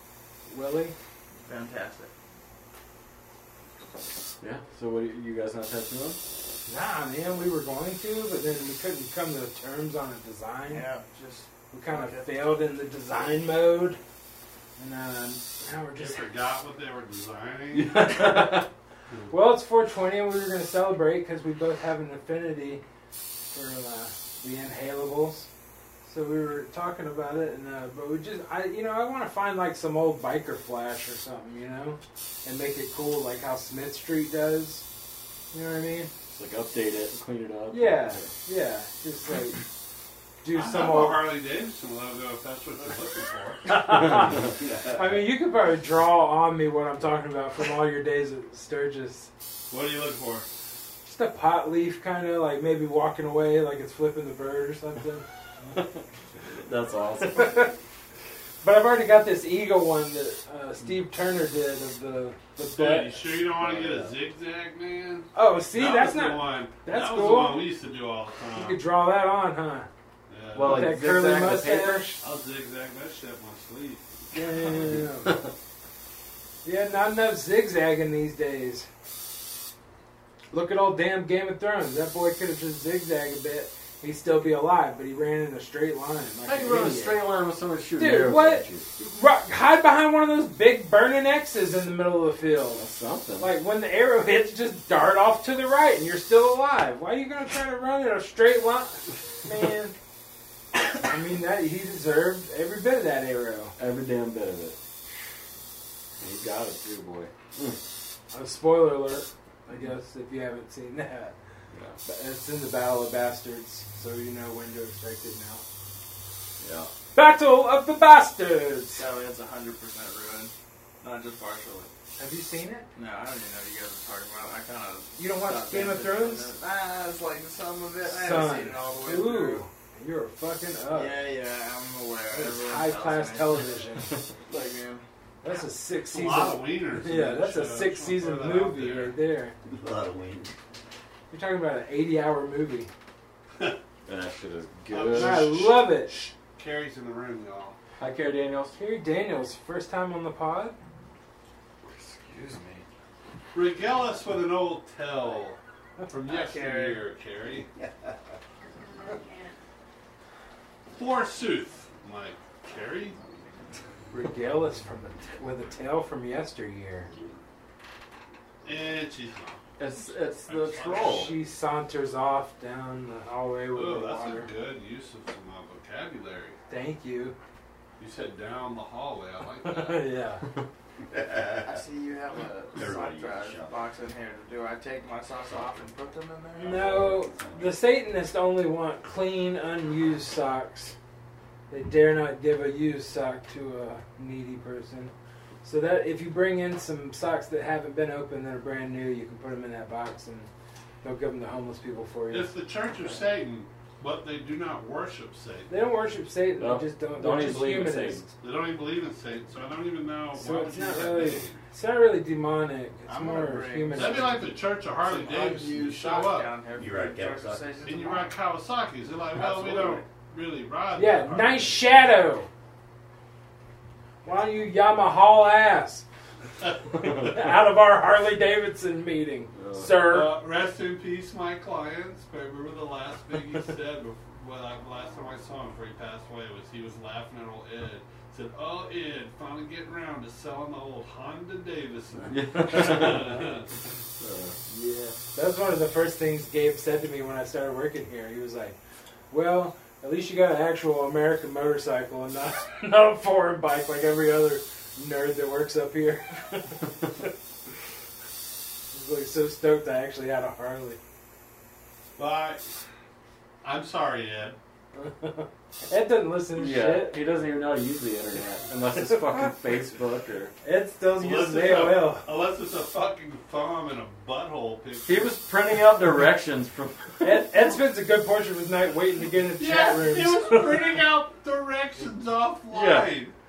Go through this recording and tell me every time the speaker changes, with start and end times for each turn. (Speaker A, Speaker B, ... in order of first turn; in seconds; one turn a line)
Speaker A: 0.5-0.9
Speaker B: 1.4-2.1
Speaker C: 4.4-6.2
Speaker A: 6.7-10.8
Speaker B: 10.7-12.4
Speaker A: 11.7-14.0
Speaker A: 14.8-16.4
Speaker D: 15.9-18.0
Speaker C: 17.8-18.6
Speaker A: 17.9-18.6
Speaker A: 19.3-22.8
Speaker A: 23.5-25.5
Speaker A: 26.0-34.9
Speaker A: 35.5-36.1
Speaker C: 36.3-38.3
Speaker A: 37.7-39.6
Speaker A: 40.4-41.4
Speaker D: 40.5-44.3
Speaker A: 43.7-49.3
Speaker D: 49.7-50.5
Speaker A: 51.0-55.2
Speaker C: 56.5-57.7
Speaker A: 57.4-57.7
Speaker A: 58.6-63.4
Speaker D: 62.6-68.8
Speaker C: 63.6-64.1
Speaker A: 65.3-67.7
Speaker A: 68.6-69.9
Speaker D: 70.3-71.1
Speaker C: 70.5-72.1
Speaker A: 70.6-72.2
Speaker D: 72.2-74.1
Speaker A: 74.3-75.4
Speaker A: 76.6-78.9
Speaker A: 80.5-87.2
Speaker C: 86.5-88.9
Speaker A: 87.9-92.8
Speaker C: 92.8-93.5
Speaker A: 93.4-100.0
Speaker A: 100.9-103.8
Speaker C: 103.8-104.8
Speaker C: 106.2-107.8
Speaker A: 108.3-111.4
Speaker C: 111.7-112.0
Speaker A: 112.0-115.6
Speaker C: 116.6-116.9
Speaker A: 117.1-119.0
Speaker B: 119.0-121.9
Speaker A: 122.2-122.9
Speaker B: 123.0-129.7
Speaker A: 125.2-126.5
Speaker A: 128.0-131.2
Speaker B: 130.9-135.1
Speaker A: 132.3-134.1
Speaker A: 135.4-139.6
Speaker D: 136.1-139.2
Speaker E: 139.7-140.5
Speaker A: 141.3-142.9
Speaker C: 144.1-145.5
Speaker D: 144.9-147.8
Speaker A: 145.1-146.2
Speaker C: 148.0-148.8
Speaker A: 148.7-150.8
Speaker C: 151.9-152.8
Speaker D: 153.5-157.7
Speaker B: 156.3-157.0
Speaker D: 160.9-163.2
Speaker A: 164.1-167.1
Speaker D: 168.6-169.6
Speaker C: 169.8-171.3
Speaker D: 170.5-171.4
Speaker A: 171.0-174.5
Speaker D: 173.7-176.6
Speaker A: 176.7-177.3
Speaker D: 178.0-180.0
Speaker A: 179.6-180.4
Speaker E: 181.1-181.7
Speaker B: 181.5-186.9
Speaker E: 182.8-183.8
Speaker A: 186.6-190.9
Speaker E: 186.7-187.7
Speaker A: 191.7-195.1
Speaker A: 195.6-200.5
Speaker A: 201.0-202.5
Speaker D: 202.3-205.7
Speaker A: 205.7-208.3
Speaker C: 206.6-208.3
Speaker D: 208.4-211.6
Speaker A: 210.3-214.4
Speaker B: 213.1-218.3
Speaker D: 213.9-216.6
Speaker E: 216.7-217.7
Speaker D: 217.8-221.9
Speaker B: 219.3-220.1
Speaker A: 220.9-222.5
Speaker A: 224.2-226.1
Speaker A: 226.9-230.3
Speaker C: 229.6-229.9
Speaker D: 230.1-243.7
Speaker C: 242.3-243.4
Speaker C: 244.2-245.1
Speaker A: 245.3-248.8
Speaker A: 249.3-257.2
Speaker A: 258.9-261.0
Speaker D: 262.2-262.7
Speaker D: 263.6-264.6
Speaker A: 265.0-267.2
Speaker C: 266.6-270.6
Speaker A: 270.6-272.3
Speaker D: 271.2-275.3
Speaker C: 275.0-277.7
Speaker A: 277.2-281.0
Speaker D: 279.6-283.3
Speaker C: 282.7-283.1